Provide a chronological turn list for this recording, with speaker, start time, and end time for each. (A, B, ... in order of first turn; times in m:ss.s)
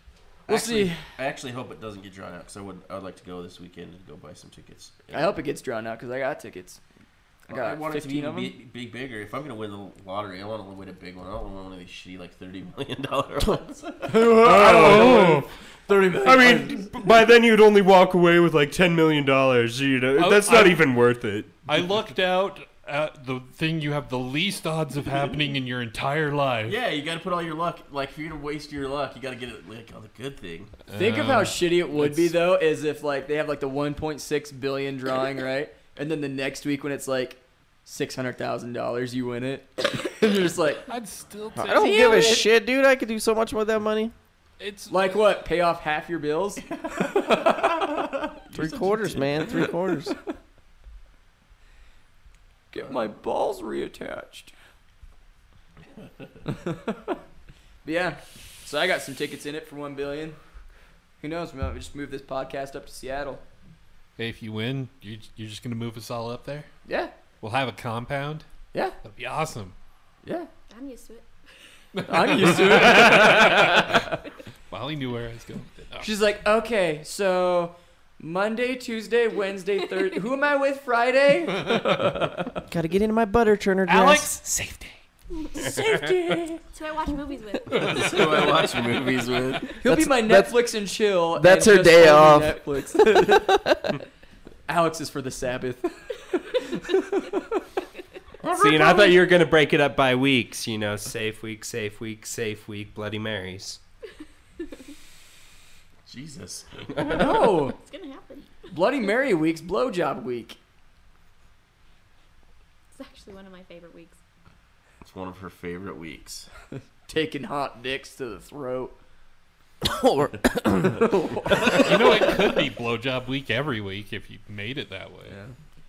0:00.5-0:05.4 A
0:00.5-0:01.0 B
0:05.1-0:06.8 B
0:07.5-0:08.5 B
0:07.5-0:14.4 A
0:14.1-0:16.8 B
0:14.4-0:15.5 C
0:14.7-0:15.0 D
0:16.2-0:21.6 C
0:20.2-0:20.9 D
0:21.7-0:26.8 D
0:26.7-0:30.7 A
0:30.9-0:32.4 D
0:30.9-0:40.8 B
0:40.9-0:42.1 D
0:41.6-0:44.1 E
0:41.6-0:42.5 B
0:44.6-0:45.2 D
0:44.9-0:47.8 B
0:46.7-0:49.6 A
0:48.5-0:50.2 E
0:52.7-0:54.5 B
0:56.5-0:57.2 B
0:57.8-1:00.4 B
1:01.2-1:03.4 B
1:04.2-1:06.7 D
1:06.9-1:07.1 B
1:07.4-1:08.5 D
1:09.0-1:09.8 D
1:10.2-1:10.5 B
1:10.7-1:11.3 F
1:12.0-1:14.0 D
1:12.1-1:14.0 B
1:14.7-1:16.1 D
1:16.0-1:22.1 B
1:22.6-1:24.3 E
1:23.9-1:25.0 D
1:25.3-1:25.7 F
1:25.6-1:26.6 B
1:26.7-1:28.2 F
1:27.7-1:29.7 A
1:29.8-1:33.5 B
1:29.8-1:30.6 E
1:31.3-1:34.0 E
1:34.7-1:37.5 B
1:38.4-1:38.9 A
1:38.5-1:43.8 C
1:46.1-1:47.5 A
1:47.0-1:47.8 B
1:47.6-1:48.7 F
1:48.7-1:50.6 B
1:52.9-1:54.2 F
1:55.0-1:56.5 A
1:57.1-1:59.0 B
1:59.8-2:01.1 E
2:01.0-2:01.9 B
2:01.6-2:05.4 D
2:05.3-2:05.6 B